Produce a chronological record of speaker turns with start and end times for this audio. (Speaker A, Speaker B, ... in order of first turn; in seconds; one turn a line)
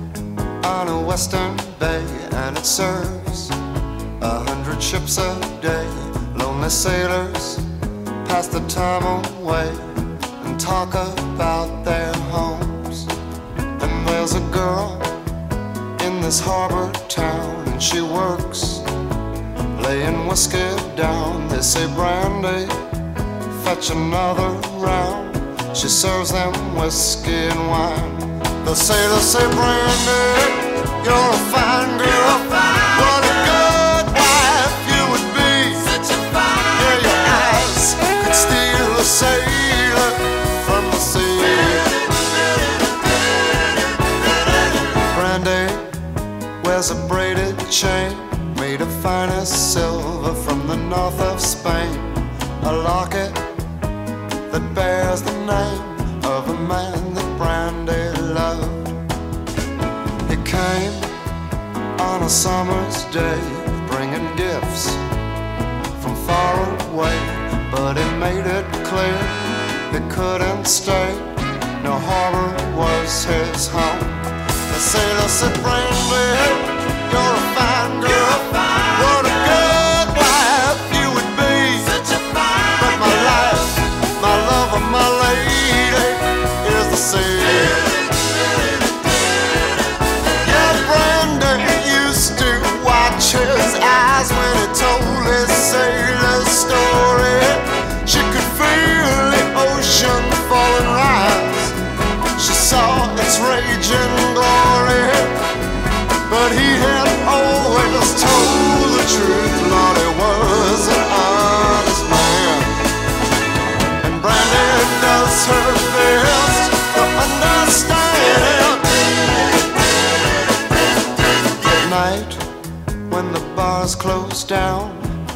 Speaker A: 0.6-3.5
Speaker A: 4.2-7.7
Speaker A: 8.2-13.1
Speaker A: 13.8-15.2
Speaker A: 16.0-18.9
Speaker A: 19.7-22.8
Speaker A: 23.5-36.0
Speaker A: 36.7-42.0
Speaker A: 44.9-45.9
Speaker A: 46.6-53.5
Speaker A: 54.5-59.0
Speaker A: 60.3-61.1
Speaker A: 62.0-65.0
Speaker A: 66.0-88.1
Speaker A: 90.4-101.8
Speaker A: 102.4-105.4
Speaker A: 106.3-112.8
Speaker A: 114.0-119.2
Speaker A: 121.7-122.5
Speaker A: 123.1-125.1